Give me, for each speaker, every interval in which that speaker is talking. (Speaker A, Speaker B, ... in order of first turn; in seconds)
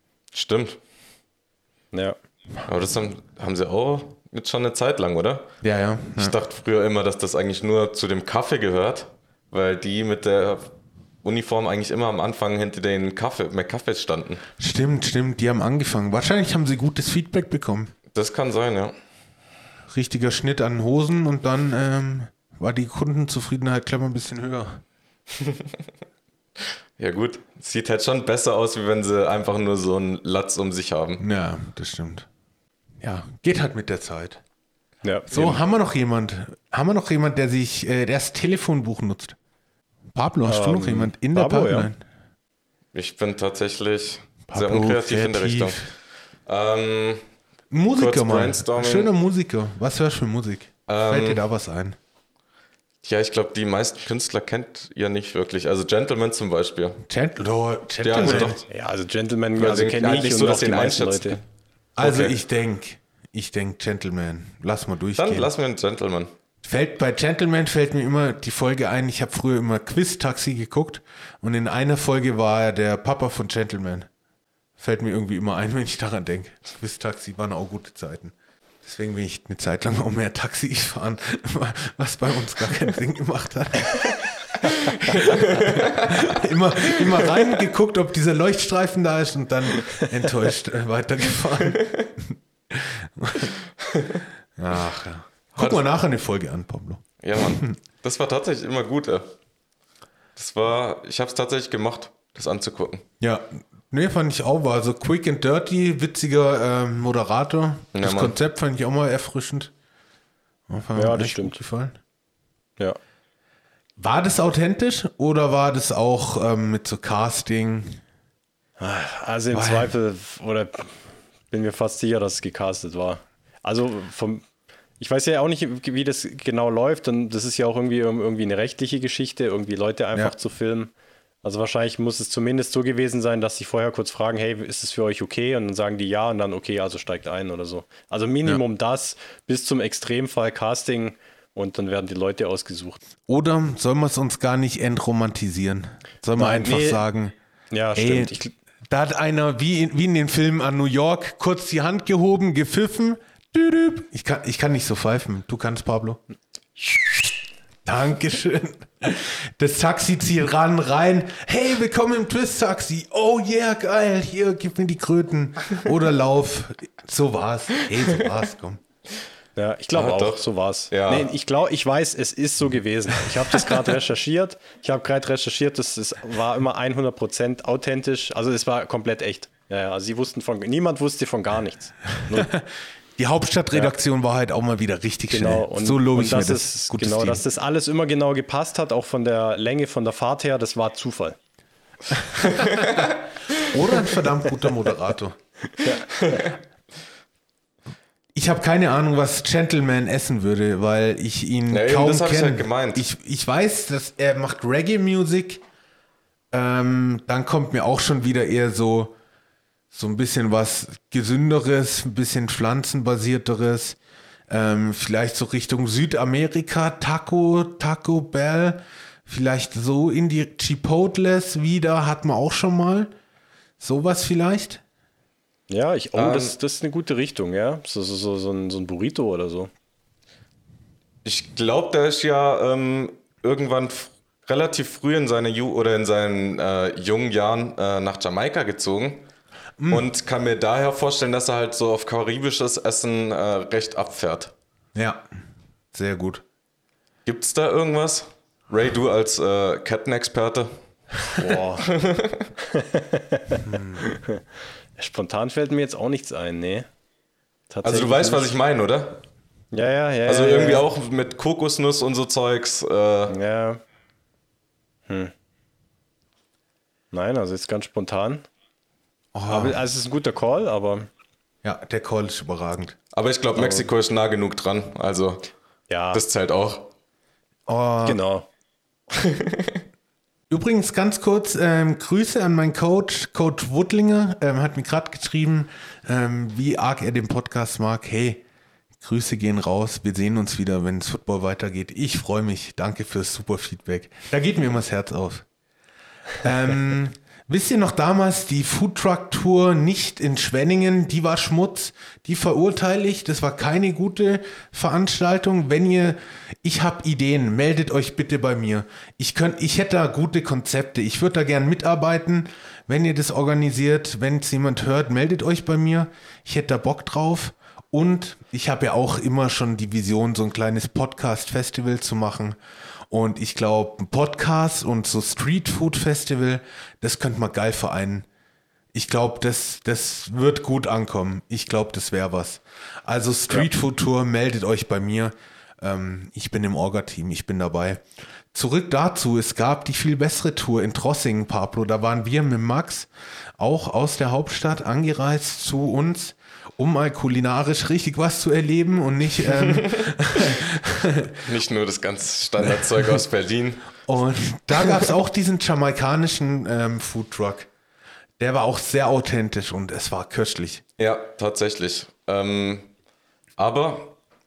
Speaker A: 0.3-0.8, 2.6-5.5, 6.2-10.7, 11.2-14.4, 18.1-18.9, 25.4-25.7, 27.0-31.2, 35.3-35.6, 42.9-45.9, 46.5-47.2, 48.0-49.1, 50.9-51.4, 53.0-57.0, 58.0-58.6, 59.6-61.4, 62.0-62.4, 65.2-66.3, 85.0-86.2, 93.8-94.2, 95.6-95.8, 97.2-99.3, 100.3-103.0, 107.9-108.3, 169.9-171.3, 192.5-193.1, 201.7-203.0, 226.1-226.6, 231.2-239.2, 239.9-244.5, 247.2-250.7, 251.8-252.5, 257.8-259.2, 260.3-263.4, 273.1-275.5, 276.1-276.9, 279.1-279.8, 349.6-350.0, 351.3-353.9, 361.0-362.9, 363.6-364.1
Speaker B: 5.6-6.3, 14.6-17.9, 19.9-24.8, 31.2-32.3, 33.0-34.4, 35.3-39.4, 40.1-42.0, 44.5-45.8, 47.7-52.0, 57.1-58.6, 62.0-65.5, 66.6-74.1, 74.8-84.2, 85.0-93.5, 94.6-97.7, 103.2-109.7, 110.7-112.0, 114.0-118.0, 119.5-119.9, 143.3-147.3, 147.9-148.3, 148.9-156.2, 157.8-168.8, 182.3-187.4, 193.6-195.4, 198.3-205.6, 206.5-209.2, 209.9-214.0, 214.5-223.1, 223.8-224.8, 239.8-240.1, 244.9-245.2, 245.9-246.4, 253.6-254.0, 269.3-269.8, 271.6-272.9, 277.7-278.2, 280.5-288.4, 289.0-295.4, 296.4-322.6, 323.1-328.3, 328.9-351.4, 352.6-353.2, 354.1-357.7, 358.4-360.8
Speaker C: 35.0-35.3, 40.5-41.9, 58.2-61.4, 110.9-111.6, 118.8-124.4, 125.0-130.9, 131.4-143.0, 146.4-147.0, 147.7-148.5, 169.6-182.5, 185.3-191.4, 195.7-196.5, 225.7-229.7, 251.3-251.9, 252.6-254.4, 255.0-256.9, 257.7-258.6, 259.7-260.9, 263.3-263.8, 265.1-265.3, 267.1-268.4, 269.5-271.1, 273.5-273.9, 275.9-276.2, 278.0-278.5